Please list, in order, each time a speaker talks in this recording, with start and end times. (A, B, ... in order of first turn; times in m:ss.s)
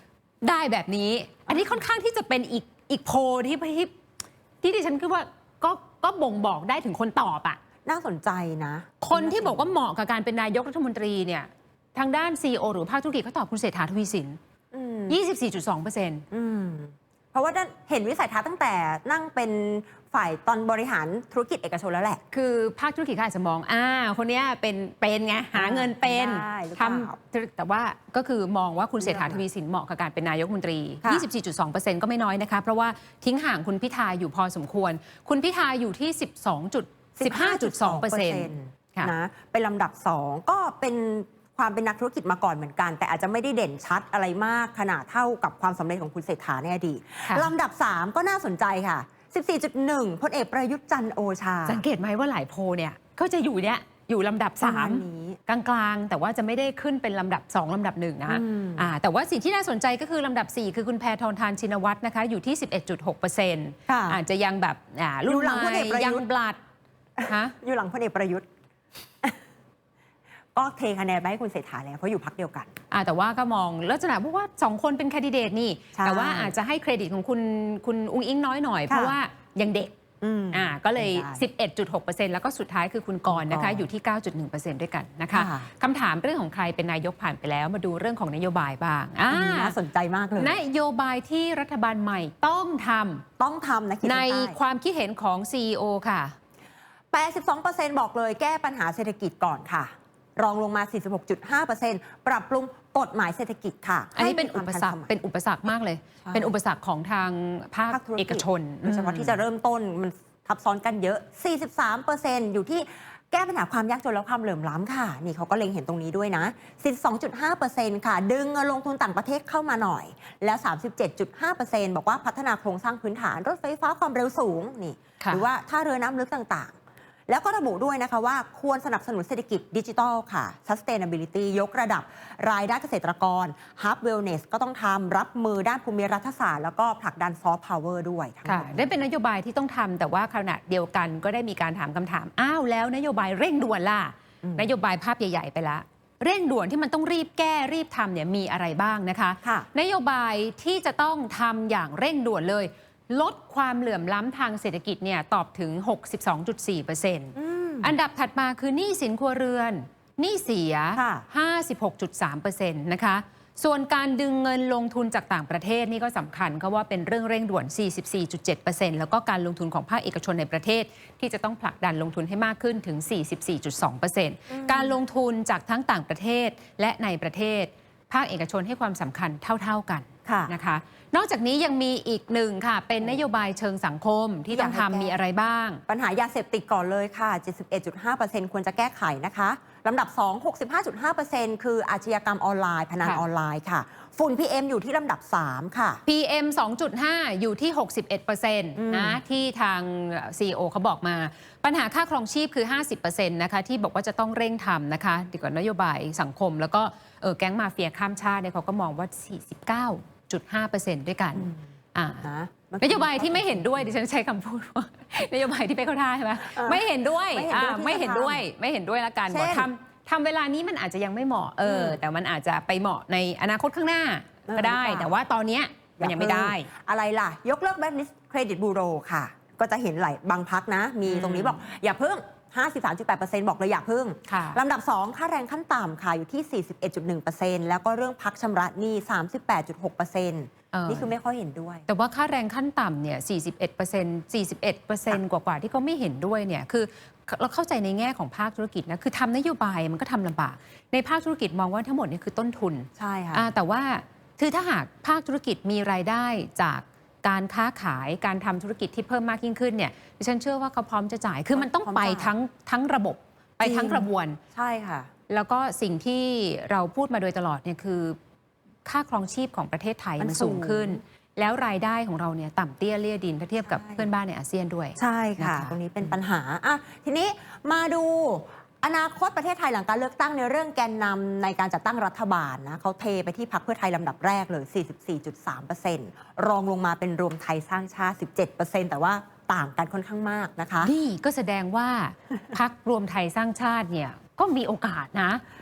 0:00.4-0:03.9 A
0:01.5-0:01.8 B
0:04.6-0:07.6 A
0:07.9-0:09.7 B
0:09.0-0:14.4 A
0:14.7-0:15.2 B
0:15.1-0:16.3 A
0:16.3-0:22.2 B
0:22.3-0:39.1 A
0:25.5-0:27.2 B
0:29.0-0:29.4 B
0:37.2-0:51.8 B
0:51.7-1:06.6 A
0:54.6-0:55.4 B
0:58.3-0:58.9 B
1:03.9-1:04.2 B
1:05.3-1:06.2 B
1:07.2-1:08.5 B
1:07.3-1:07.6 A
1:10.6-1:12.7 B
1:12.9-1:20.0 A
1:16.0-1:16.6 B
1:18.9-1:19.2 B
1:20.2-1:21.4 B
1:20.5-1:29.8 A
1:23.3-1:23.9 B
1:25.3-1:25.7 B
1:29.3-1:30.6 B
1:30.4-1:33.2 A
1:33.4-1:34.6 B
1:34.0-1:36.4 A
1:37.1-1:45.1 B
1:44.2-1:49.4 A
1:46.2-1:46.5 B
1:47.9-2:06.7 B
2:05.2-2:05.4 A
2:07.3-2:18.9 B
2:18.5-3:05.8 A
2:24.4-2:24.7 B
2:29.4-2:29.7 B
2:37.4-2:37.9 B
2:41.0-2:41.2 B
2:54.5-2:55.0 B
3:00.3-3:00.5 B
3:04.5-3:05.2 B
3:05.9-3:16.0 B
3:16.1-3:32.3 A
3:18.8-3:19.2 B
3:32.2-3:33.9 B
3:32.8-3:46.7 A
3:36.4-3:38.4 B
3:39.3-3:39.7 B
3:41.6-3:42.0 B
3:44.5-3:45.1 B
3:46.0-4:01.9 B
3:51.1-3:51.6 A
3:54.3-3:54.6 A
4:00.7-4:01.1 A
4:01.9-4:24.4 A
4:13.0-4:13.5 B
4:21.5-4:22.3 B
4:23.6-4:25.1 B
4:25.3-4:28.2 A
4:28.8-4:36.2 A
4:30.2-4:31.0 B
4:33.7-4:34.1 B
4:35.0-4:50.9 B
4:50.8-4:55.4 A